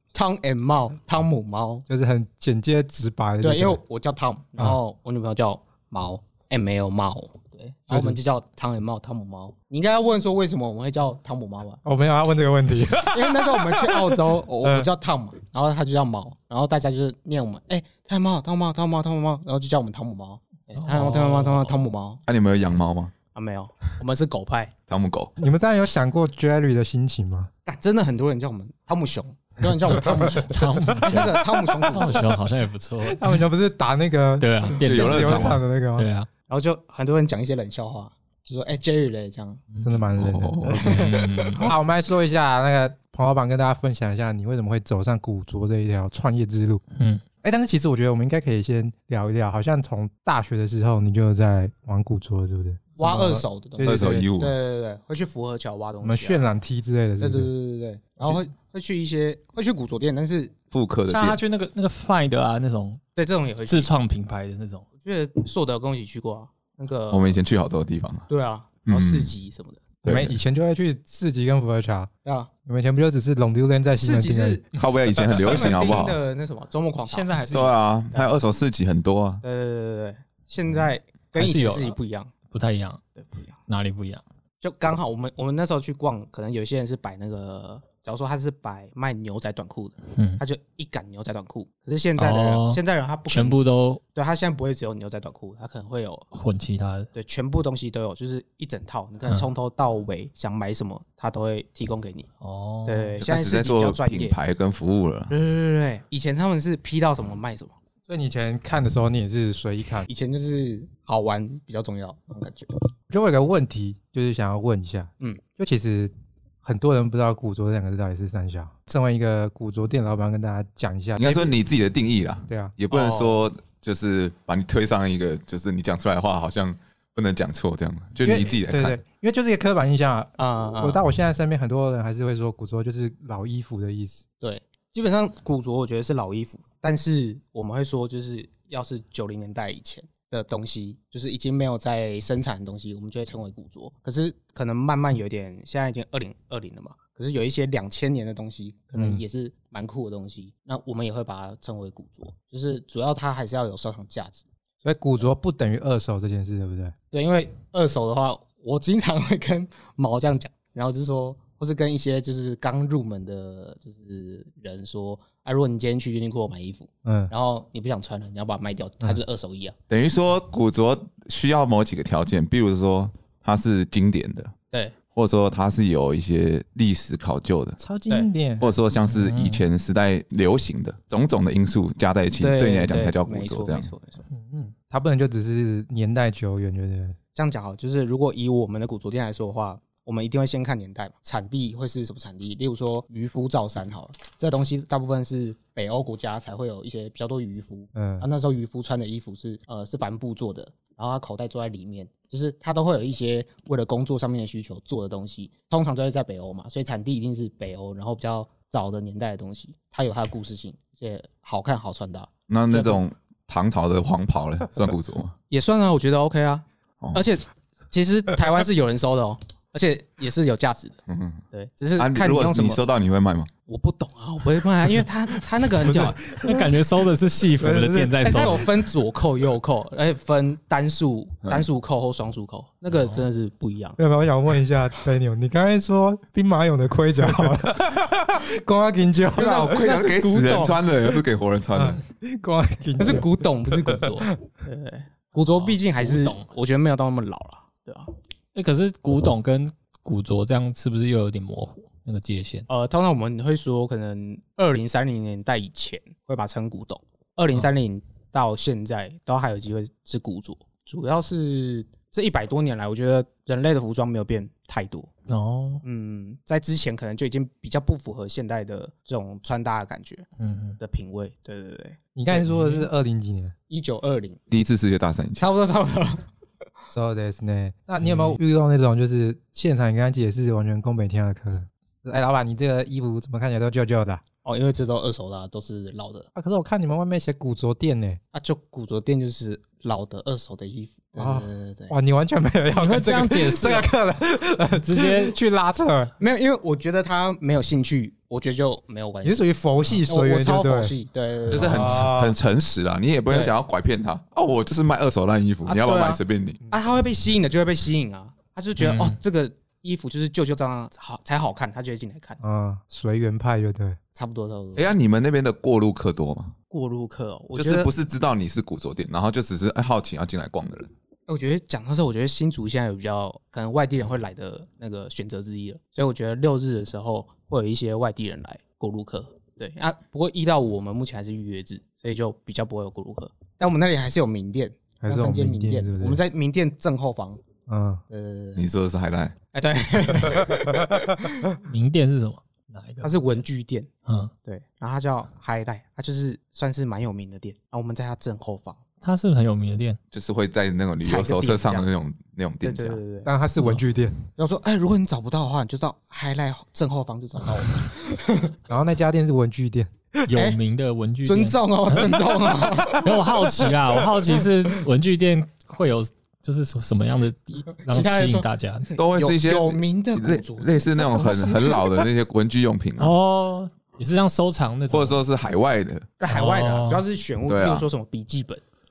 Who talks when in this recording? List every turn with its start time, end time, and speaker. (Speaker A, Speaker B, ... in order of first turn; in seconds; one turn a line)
Speaker A: 0.1-1.8
Speaker B: 1.9-3.8
Speaker A: 3.4-11.8
Speaker B: 7.9-8.2
Speaker B: 11.8-14.8
Speaker A: 13.1-22.2
Speaker C: 20.7-21.8
Speaker D: 22.3-23.1
Speaker A: 23.3-24.7
Speaker D: 24.9-25.3
Speaker B: 25.4-27.5
Speaker A: 27.6-32.3
Speaker C: 29.9-33.4
Speaker B: 31.0-31.3
Speaker B: 33.0-36.1
Speaker C: 34.4-36.3
Speaker D: 34.8-35.6
Speaker A: 36.5-39.6
Speaker C: 39.7-40.0
Speaker B: 39.8-46.8
Speaker D: 40.2-41.0
Speaker C: 40.7-41.7
Speaker C: 46.9-47.2
Speaker B: 47.4-54.3
Speaker A: 53.0-56.4
Speaker D: 53.8-54.5
Speaker B: 56.0-57.5
Speaker A: 57.2-60.5
Speaker D: 60.7-61.4
Speaker C: 61.1-63.0
Speaker A: 63.1-63.9
Speaker C: 63.7-64.8
Speaker A: 65.0-67.4
Speaker D: 67.1-68.3
Speaker A: 68.3-69.8
Speaker D: 68.8-69.3
Speaker D: 70.0-70.4
Speaker B: 70.0-72.1
Speaker B: 72.7-74.6
Speaker A: 73.9-74.6
Speaker D: 74.8-76.2
Speaker A: 75.2-77.3
Speaker C: 77.0-77.7
Speaker D: 77.5-79.4
Speaker A: 79.4-82.3
Speaker C: 81.3-82.0
Speaker C: 82.5-83.0
Speaker A: 83.2-83.6
Speaker C: 83.7-84.2
Speaker A: 84.6-96.2
Speaker C: 90.1-90.4
Speaker C: 92.2-94.0
Speaker C: 96.3-97.1
Speaker A: 97.1-102.3
Speaker C: 102.4-103.2
Speaker A: 102.8-104.4
Speaker D: 103.2-105.3
Speaker A: 105.3-107.8
Speaker B: 108.1-110.1
Speaker A: 110.1-112.8
Speaker B: 113.1-116.1
Speaker B: 116.6-121.5
Speaker D: 121.2-129.0
Speaker B: 122.5-122.7
Speaker A: 122.9-123.4
Speaker B: 128.2-134.2
Speaker A: 130.4-131.0
Speaker A: 134.4-154.4
Speaker B: 154.8-156.9
Speaker A: 157.1-169.7
Speaker B: 167.0-167.3
Speaker D: 169.9-174.5
Speaker D: 175.1-177.8
Speaker B: 177.8-178.7
Speaker D: 178.6-183.9
Speaker C: 179.1-179.6
Speaker A: 182.4-184.2
Speaker C: 184.3-184.7
Speaker B: 184.9-187.2
Speaker A: 187.3-213.0
Speaker B: 197.9-198.3
Speaker D: 212.5-215.3
Speaker A: 215.5-221.0
Speaker D: 221.1-221.4
Speaker A: 221.5-222.8
Speaker D: 222.0-223.5
Speaker A: 223.7-226.2
Speaker B: 225.9-226.7
Speaker C: 226.4-228.7
Speaker B: 227.6-228.7
Speaker A: 228.2-234.0
Speaker C: 232.9-233.2
Speaker B: 234.0-239.9
Speaker A: 239.3-240.8
Speaker D: 239.4-242.0
Speaker B: 241.7-243.3
Speaker A: 243.0-248.1
Speaker B: 243.8-244.3
Speaker C: 245.3-246.5
Speaker C: 248.5-252.7
Speaker A: 252.7-265.1
Speaker C: 265.3-265.8
Speaker A: 265.8-270.2
Speaker C: 270.4-270.8
Speaker A: 270.8-272.0
Speaker B: 272.1-273.5
Speaker C: 272.3-272.9
Speaker A: 273.7-274.4
Speaker D: 274.5-275.5
Speaker A: 275.4-276.3
Speaker B: 276.9-284.2
Speaker C: 278.0-278.4
Speaker A: 284.4-286.3
Speaker B: 286.3-288.2
Speaker A: 288.3-291.9
Speaker B: 291.2-296.1
Speaker C: 292.7-293.9
Speaker C: 294.7-295.4
Speaker A: 296.2-302.1
Speaker B: 299.2-300.9
Speaker D: 301.5-306.6
Speaker B: 301.5-302.3
Speaker A: 305.6-312.4
Speaker C: 308.8-309.2
Speaker B: 312.4-314.0
Speaker A: 314.1-314.9
Speaker D: 314.8-316.5
Speaker A: 316.7-317.9
Speaker D: 317.5-320.9
Speaker A: 321.3-337.4
Speaker B: 335.0-336.2
Speaker B: 337.7-338.0
Speaker A: 338.1-338.6
Speaker D: 338.6-339.4
Speaker A: 339.5-340.7
Speaker C: 341.6-343.4
Speaker A: 343.0-343.9
Speaker C: 344.1-344.3
Speaker A: 344.4-348.8
Speaker C: 349.0-350.0
Speaker D: 350.1-353.0
Speaker A: 351.0-351.9
Speaker A: 352.6-353.3
Speaker B: 353.2-354.2
Speaker A: 354.4-358.5
Speaker B: 358.7-359.9
Speaker C: 360.3-362.2
Speaker A: 360.3-360.6
Speaker A: 361.2-363.7
Speaker C: 362.9-368.9
Speaker A: 367.9-371.7
Speaker D: 369.0-373.1
Speaker C: 371.1-371.7
Speaker C: 373.0-375.2
Speaker D: 374.9-376.1
Speaker A: 376.2-378.6
Speaker C: 376.3-377.0
Speaker D: 377.5-377.9